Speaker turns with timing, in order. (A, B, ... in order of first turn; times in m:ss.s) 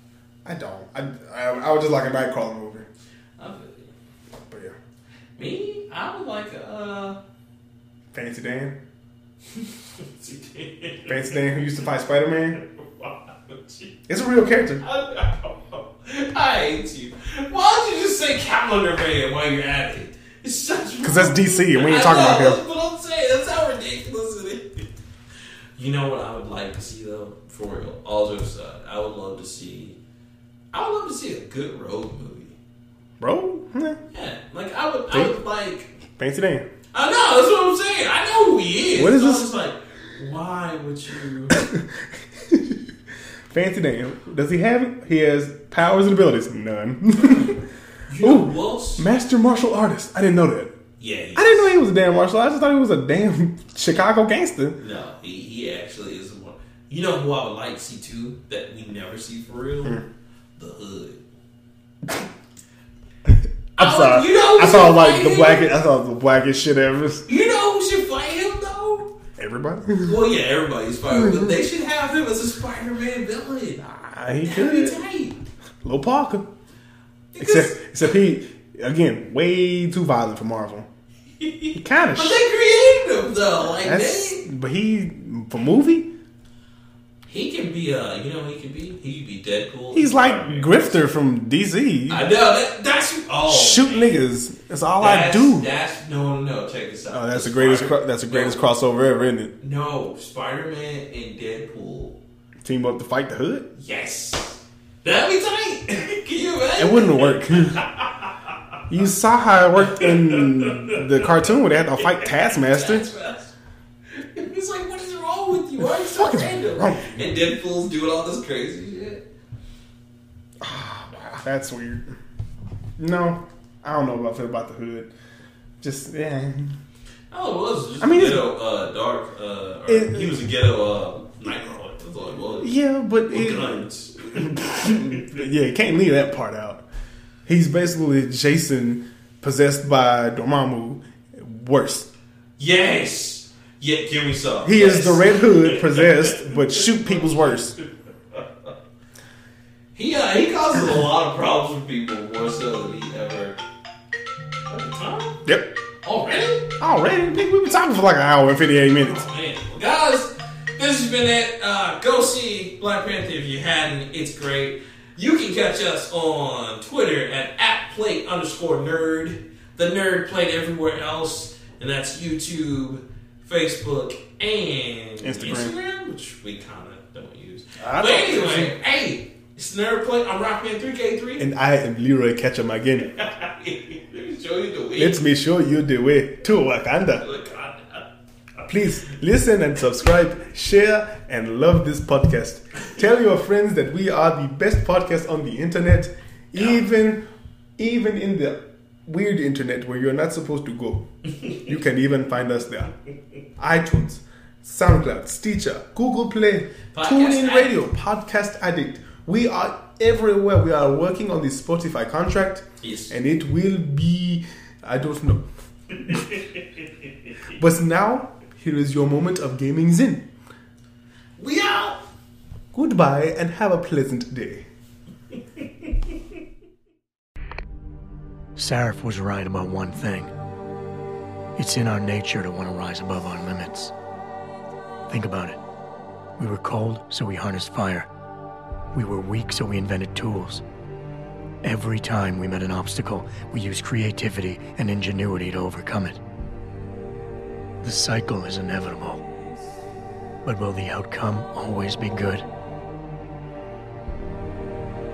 0:00.4-0:02.9 A
0:03.4-0:03.9 B
0:04.5-0:04.8 A
0:05.4-0:07.2 B
0:08.1-0:08.8 A
0:09.5-0:11.4 B
0:11.1-0:12.6 A
0:12.6-0:13.9 B
0:14.1-0:14.8 A
0:14.8-0:24.9 B
0:21.0-0:22.6 A
0:25.8-0:30.0 B
0:30.7-0:32.6 B
0:33.2-0:34.0 A
0:34.1-0:35.9 B
0:35.1-0:35.4 A
0:36.2-0:36.7 A
0:36.9-0:41.6 B
0:39.0-0:39.5 A
0:41.5-0:42.8 A
0:43.5-0:47.6 A
0:47.2-0:47.5 B
0:48.1-0:49.1 B
0:48.2-0:50.8 A
0:51.0-0:51.8 B
0:51.4-0:54.8 A
0:54.8-1:00.0 B
1:00.6-1:01.2 B
1:03.3-1:07.3 A
1:03.8-1:05.7 B
1:07.3-1:09.1 B
1:09.4-1:10.2 A
1:10.0-1:15.4 B
1:11.1-1:11.6 A
1:14.0-1:15.0 A
1:15.8-1:16.4 A
1:17.3-1:17.9 B
1:17.4-1:20.9 A
1:21.4-1:24.5 B
1:21.8-1:22.4 A
1:23.6-1:26.1 A
1:27.3-1:31.1 B
1:29.9-1:32.2 A
1:32.1-1:34.2 B
1:33.5-1:35.7 A
1:35.0-1:38.6 B
1:37.1-1:39.5 A
1:39.6-1:42.2 B
1:42.6-1:43.7 A
1:43.7-1:48.1 B
1:46.8-1:47.8 A
1:48.9-1:53.1 A
1:49.8-1:51.4 B
1:52.0-1:53.5 B
1:54.1-1:59.2 B
1:55.8-1:57.2 A
2:00.6-2:02.1 A
2:03.0-2:05.1 A
2:05.8-2:06.8 A
2:07.3-2:12.8 B
2:08.0-2:08.5 A
2:09.9-2:10.4 A
2:12.6-2:16.8 A
2:13.3-2:15.4 B
2:17.5-2:22.1 A
2:22.6-2:28.7 B
2:24.6-2:27.8 A
2:30.0-2:33.6 B
2:34.7-2:35.4 B
2:36.0-2:36.7 B
2:36.8-2:39.2 A
2:38.9-3:01.4 B
2:55.2-2:55.8 A
2:57.8-2:58.7 A
3:01.4-3:03.1 A
3:03.0-3:05.2 B
3:05.0-3:07.2 A
3:07.2-3:08.0 B
3:08.7-3:17.2 A
3:16.6-3:16.8 B
3:17.8-3:21.1 A
3:21.7-3:22.9 A
3:23.6-3:35.5 A
3:26.9-3:27.8 B
3:32.8-3:33.1 B
3:35.9-3:36.6 B
3:37.6-3:40.3 A
3:41.4-3:42.0 B
3:42.7-3:44.6 A
3:48.6-3:50.3 C
3:51.6-3:53.9 C
3:55.1-3:55.6 C
3:56.4-3:58.1 C
3:58.9-4:00.6 C
4:01.6-4:06.2 C
4:07.8-4:09.2 C
4:10.4-4:12.4 C